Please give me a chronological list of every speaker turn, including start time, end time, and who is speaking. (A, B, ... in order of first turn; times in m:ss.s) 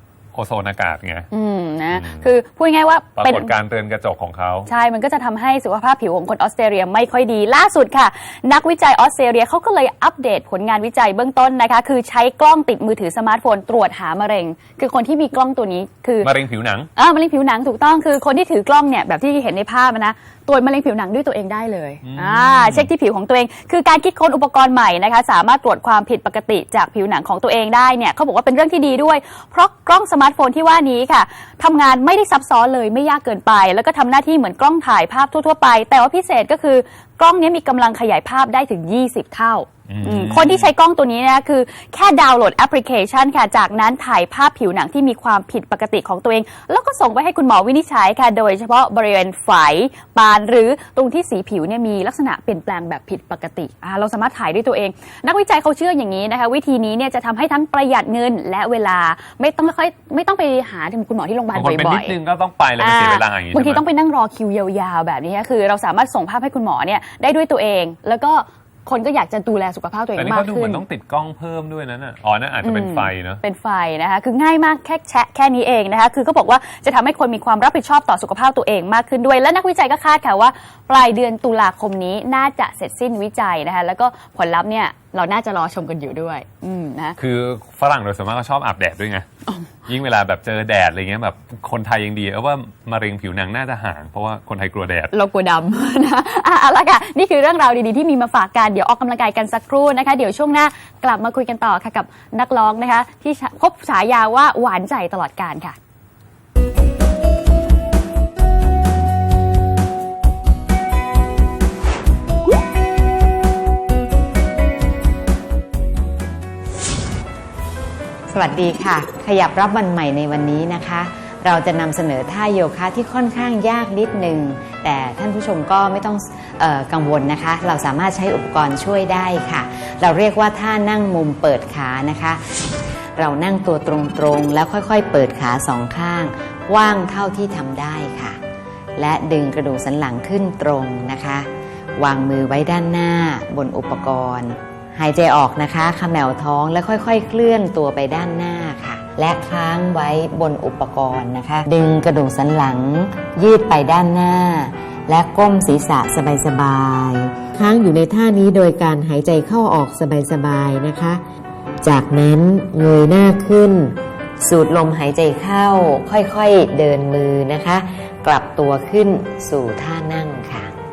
0:00.3-0:01.3 A
0:01.3-0:03.5 B
0:01.9-0:02.2 A
0:03.2-0:04.7 A
0:04.7-0:16.3 B
0:16.2-0:16.9 A
0:17.0-1:02.2 B
0:22.0-0:22.9 A
0:39.9-0:40.7 A
1:01.5-1:03.8 A
1:02.8-1:10.8 B
1:10.2-1:13.4 A
1:12.6-1:27.2 B
1:27.2-1:29.2 A
1:29.9-1:35.1 A
1:35.1-1:45.8 B
1:58.3-2:18.4 C
2:18.9-2:41.2 C
2:41.8-2:50.8 C